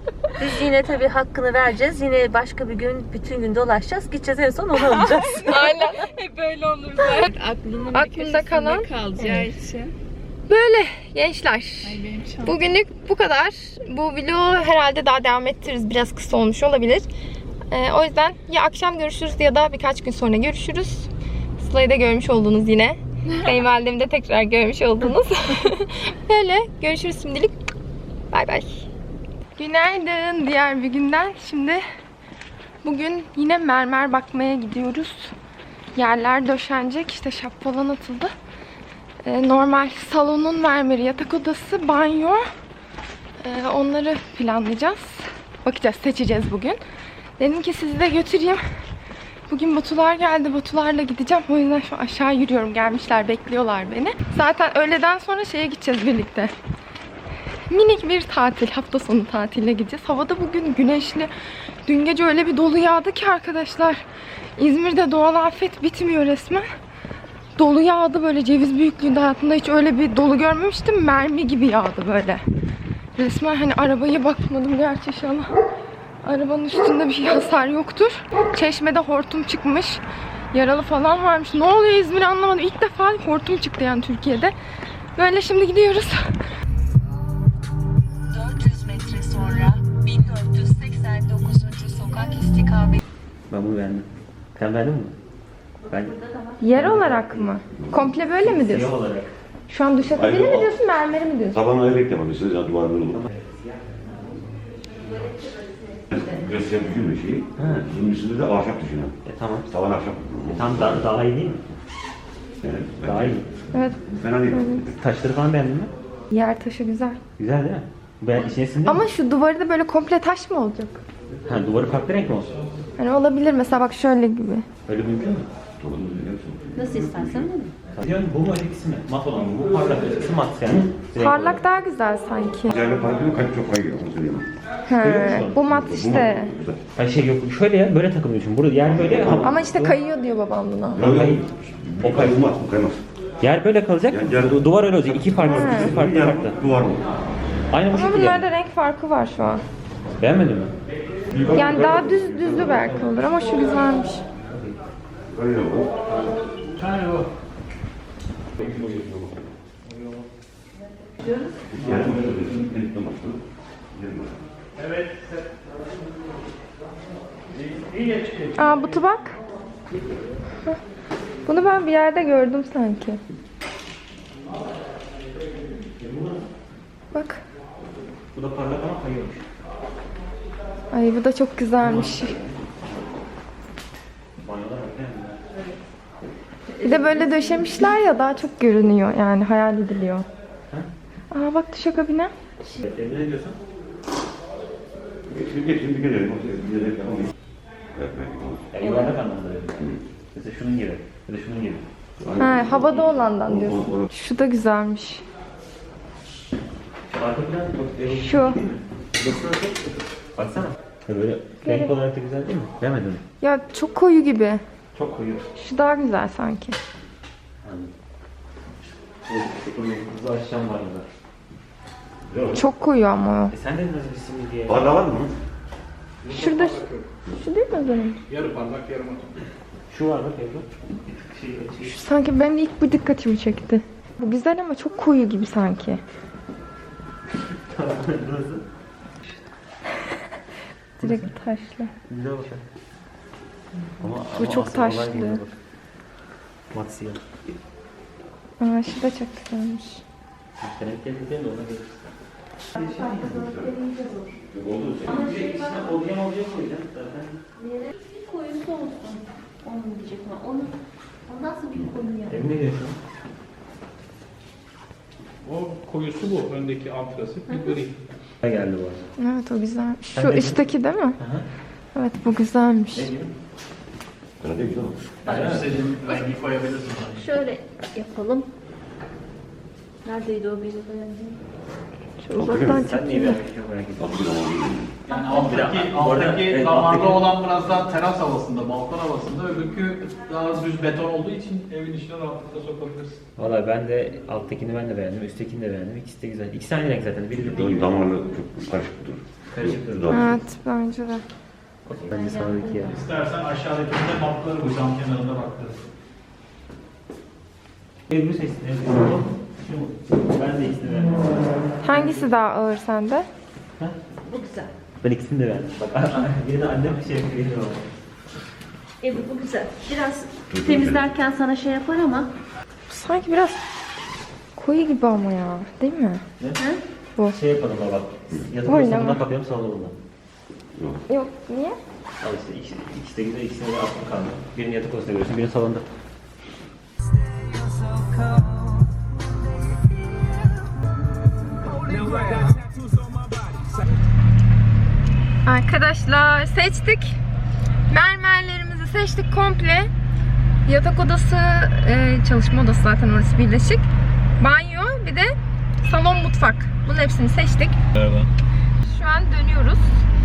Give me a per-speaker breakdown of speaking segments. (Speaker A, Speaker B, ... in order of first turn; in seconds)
Speaker A: 0.4-5.8, 88.3-93.0, 126.7-127.7, 252.8-254.3, 255.2-255.9, 257.6-260.8, 261.3-262.4, 267.5-267.8, 276.0-276.3, 277.1-278.5, 280.1-281.4, 302.2-302.7, 314.3-314.7, 319.0-322.3
Speaker B: 5.1-9.9, 11.8-12.6
Speaker C: 5.4-6.0, 7.9-8.9, 10.5-17.1, 17.7-27.5, 28.3-28.9, 29.6-31.8, 32.8-35.4, 35.9-38.3, 39.2-42.4, 43.4-46.8, 47.4-48.6, 49.5-56.5, 57.7-61.3, 61.9-64.0, 64.6-66.7, 67.6-72.4, 73.2-75.5, 76.2-80.0, 80.5-84.5, 85.2-86.3, 96.6-98.9, 99.7-101.6, 113.7-114.8, 116.3-117.2, 118.8-121.0, 123.0-124.7, 131.2-132.7, 134.9-136.6, 139.4-141.1, 145.4-145.9, 147.9-149.6, 151.5-154.2, 168.6-169.4, 171.4-173.2, 177.1-177.4, 180.9-182.4, 186.8-190.3, 191.3-192.3, 202.4-205.2, 208.1-208.6, 211.6-211.9, 213.4-214.6, 215.6-216.8, 222.5-223.5, 226.3-228.2, 231.8-236.0, 241.0-241.9, 244.4-245.4, 248.6-250.0, 269.2-271.2, 271.9-273.1, 282.2-283.4, 300.1-301.2, 311.8-313.3, 322.9-323.6, 324.6-326.2, 328.7-329.2, 331.1-331.8, 345.4-347.2, 347.9-349.9, 350.7-353.9, 354.4-357.8, 358.8-360.0
Speaker D: 93.5-95.1, 95.9-96.2, 96.7-97.5, 98.4-99.3, 103.1-104.4, 107.6-107.8, 109.2-109.7, 110.5-111.6, 113.0-113.5, 114.9-115.9, 117.4-119.1, 121.5-122.5, 124.9-125.5, 127.9-131.6, 134.9-135.6, 136.9-140.0, 141.0-141.5, 142.0-142.5, 143.4-146.6, 147.7-148.4, 150.2-150.7, 151.4-153.1, 161.8-162.3, 167.7-168.4, 176.0-176.4, 178.3-179.4, 181.8-183.1, 184.4-185.4, 192.7-193.6, 198.7-201.8, 207.1-209.8, 210.4-213.2, 214.9-215.5, 217.6-217.9, 219.2-221.1, 223.5-225.0, 229.9-232.0, 237.4-238.7, 241.0-241.3, 242.1-242.6, 244.0-245.5, 246.7-247.2, 250.6-252.1, 252.7-253.7, 254.7-257.4, 262.3-263.0, 268.4-269.1, 270.1-270.7, 271.2-271.5, 272.9-273.3, 275.2-275.7, 282.6-284.3, 285.3-287.3, 293.4-298.0, 299.5-300.2, 301.9-303.0, 308.1-311.5, 315.0-317.8, 327.3-330.0, 332.2-335.9, 358.0-358.3
Speaker E: 100.0-100.8, 101.5-103.2, 106.1-109.2, 109.7-111.1, 112.6-113.4, 114.2-115.0, 125.8-127.5, 132.7-134.5, 135.7-136.8, 138.8-139.5, 140.9-143.0, 144.1-147.1, 151.3-152.6, 155.3-155.9, 158.6-159.5, 161.7-164.4, 195.3-197.3, 197.9-198.7, 202.2-204.1, 222.3-222.5, 224.7-225.3, 254.5-255.2, 274.4-275.0, 282.4-282.8, 284.0-285.1, 297.4-300.3, 320.5-321.1
Speaker F: 156.8-157.3, 226.2-227.1, 228.3-229.3, 265.4-268.0, 275.3-277.3, 285.1-293.2, 302.9-305.8